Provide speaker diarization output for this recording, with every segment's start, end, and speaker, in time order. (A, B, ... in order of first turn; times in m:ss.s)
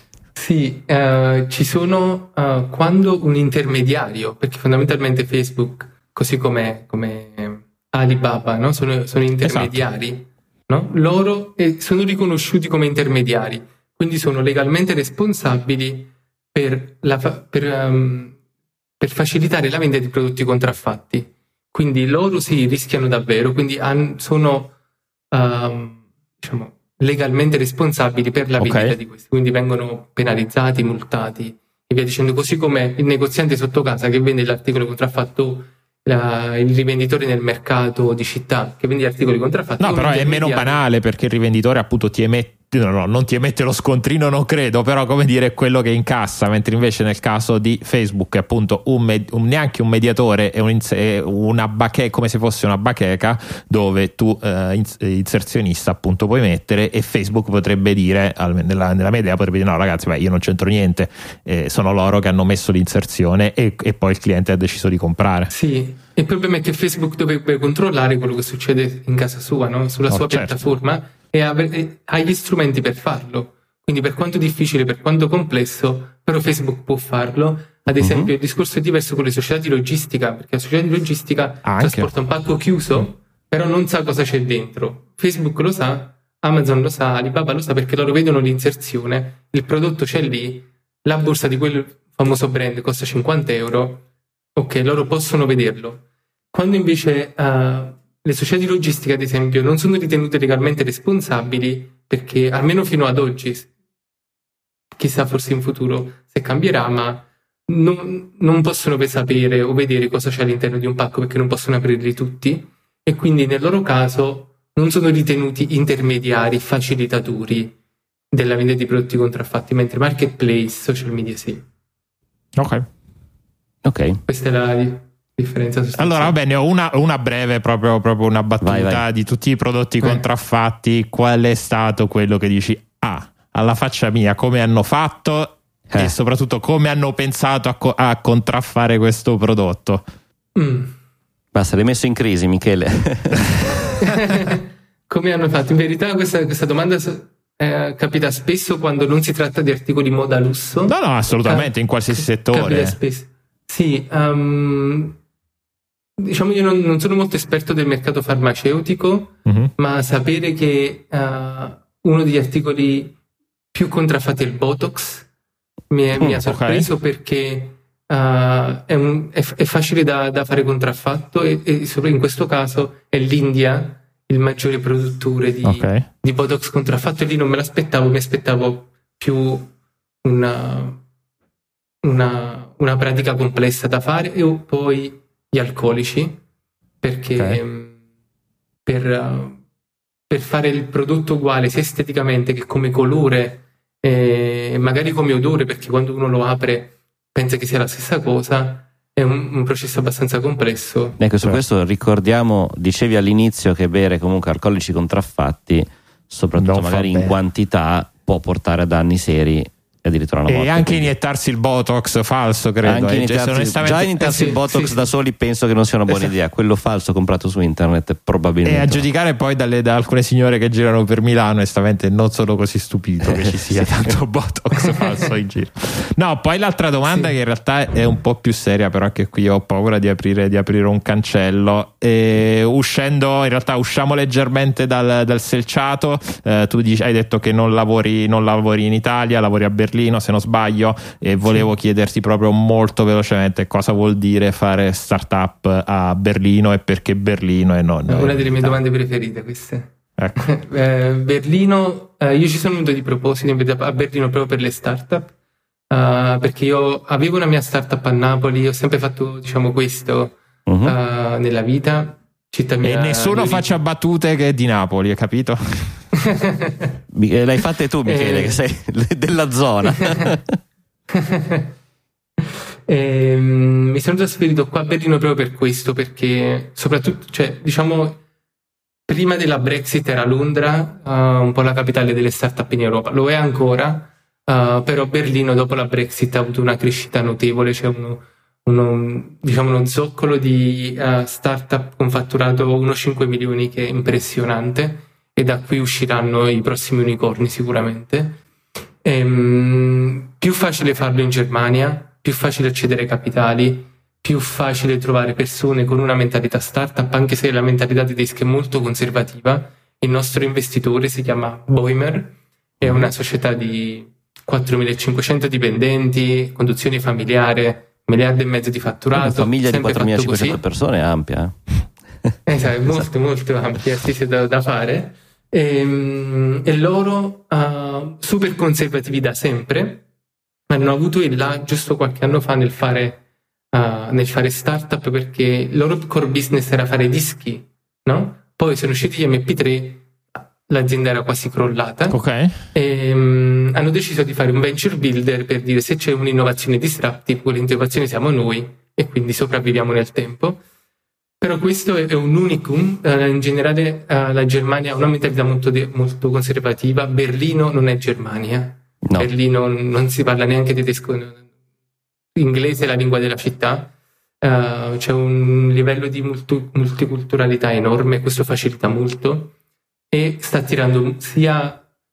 0:00.3-0:18.4 A
0:09.4-0:09.8 B
0:19.0-0:24.7 A
0:25.3-0:40.8 A
0:28.6-0:28.9 B
0:39.8-1:05.5 B
1:05.5-1:34.0 A
1:10.1-1:10.6 B
1:18.0-1:18.3 C
1:21.6-1:22.1 B
1:34.6-1:43.7 A
1:44.9-1:57.7 A
1:58.3-2:01.6 A
2:02.6-2:02.8 B
2:03.8-2:04.2 C
2:04.3-2:06.4 A
2:06.0-2:20.1 B
2:08.6-2:09.0 C
2:20.6-2:21.0 A
2:21.5-2:24.0 C
2:24.0-2:35.2 A
2:30.9-2:33.0 B
2:36.2-2:43.2 A
2:39.4-2:39.7 B
2:43.7-2:45.3 A
2:45.9-2:59.7 A
2:46.2-2:46.9 B
2:55.6-2:56.0 B
3:00.2-3:01.0 A
3:02.0-3:06.4 A
3:07.0-3:08.0 A
3:08.8-3:09.6 A
3:10.3-3:21.2 A
3:21.2-3:31.1 C
3:26.6-3:27.4 B
3:30.5-3:34.1 B
3:32.8-3:39.0 C
3:34.2-3:35.0 A
3:38.6-4:08.8 B
3:43.2-3:44.1 C
3:47.1-3:47.3 A
4:08.1-4:15.3 A
4:10.2-4:10.5 B
4:15.9-4:23.8 A
4:20.6-4:21.0 C
4:22.8-4:26.2 B
4:26.4-4:26.9 A
4:27.1-4:30.6 C
4:28.0-4:28.6 A
4:31.1-4:31.7 A
4:32.9-4:38.2 A
4:39.1-4:58.4 A
4:59.0-5:20.6 A
5:12.8-5:13.1 C
5:19.2-5:22.3 C
5:22.4-5:30.0 A
5:30.7-5:33.2 A
5:33.7-5:42.2 A
5:42.1-5:42.6 B
5:42.7-5:50.6 A
5:51.4-6:01.4 A
6:02.4-6:09.5 A
6:10.1-6:11.8 A